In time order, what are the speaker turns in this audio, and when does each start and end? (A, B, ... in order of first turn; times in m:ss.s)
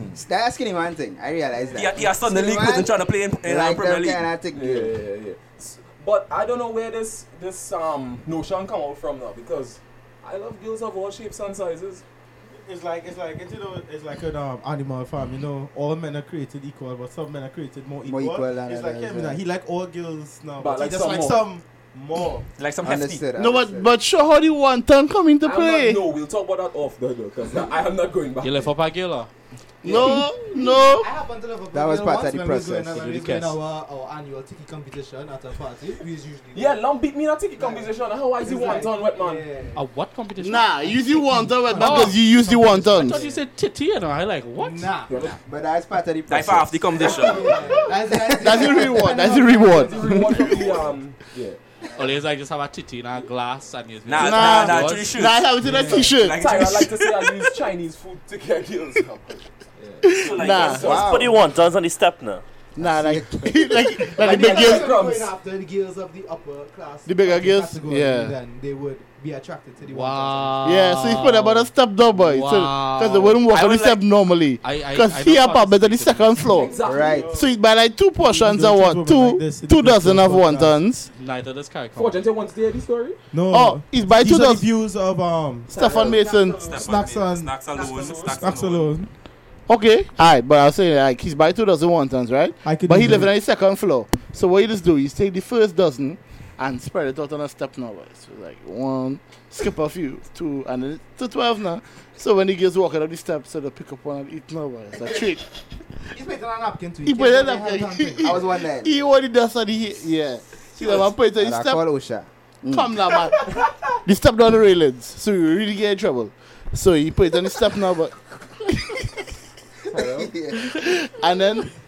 0:00.2-0:04.9 A
0:01.7-0:04.3 B
0:04.5-0:12.0 C
0:12.6-0:22.5 D
0:18.0-0:19.4 A
0:20.6-0:21.5 C
0:22.6-0:23.2 B
0:22.8-0:23.9 A
0:23.4-0:26.0 E
0:25.4-0:28.7 C
0:28.4-0:29.3 F
0:29.8-0:31.1 E
0:29.9-0:36.9 G
0:31.7-0:33.0 A
0:33.0-0:33.6 F
0:36.5-0:39.5 C
0:37.6-0:39.8 G
0:39.7-0:41.2 F
0:40.4-0:43.2 E
0:41.1-0:43.4 G
0:41.7-0:42.3 F
0:42.9-0:45.0 F
0:44.6-0:45.4 G
0:45.1-0:45.4 C
0:45.4-0:47.1 A
0:46.3-0:47.5 B
0:47.0-0:47.8 C
0:47.0-0:50.9 G
0:48.1-0:49.0 A
0:48.3-0:50.6 E
0:49.7-0:51.6 C
0:52.0-0:55.2 F
0:54.1-0:57.0 B
0:54.2-0:57.3 E
0:55.6-0:56.1 G
0:56.3-1:01.2 C
1:00.0-1:00.9 E
1:00.2-1:02.4 H
1:00.7-1:01.4 A
1:02.8-1:04.2 A
1:02.8-1:05.0 E
1:04.1-1:10.7 G
1:04.1-1:05.3 C
1:07.1-1:08.4 E
1:09.9-1:13.4 F
1:10.6-1:16.8 E
1:13.5-1:14.0 B
1:14.6-1:16.6 F
1:16.5-1:17.3 C
1:16.8-1:17.6 D
1:16.8-1:17.4 A
1:17.3-1:21.1 E
1:18.1-1:20.8 D
1:21.1-1:22.4 F
1:22.0-1:23.2 C
1:23.3-1:25.8 D
1:23.5-1:24.6 E
1:25.7-1:26.3 C
1:25.7-1:26.6 E
1:25.8-1:27.2 G
1:26.6-1:29.0 B
1:26.8-1:29.1 D
1:27.7-1:28.1 G
1:27.8-1:28.4 C
1:29.7-1:45.4 E
1:32.6-1:33.3 D
1:46.1-1:48.4 G
1:47.0-1:51.8 E
1:48.2-1:48.9 A
1:50.8-1:53.1 A
1:52.7-1:58.9 E
1:59.9-2:00.3 C
1:59.9-2:00.8 A
2:00.6-2:01.7 E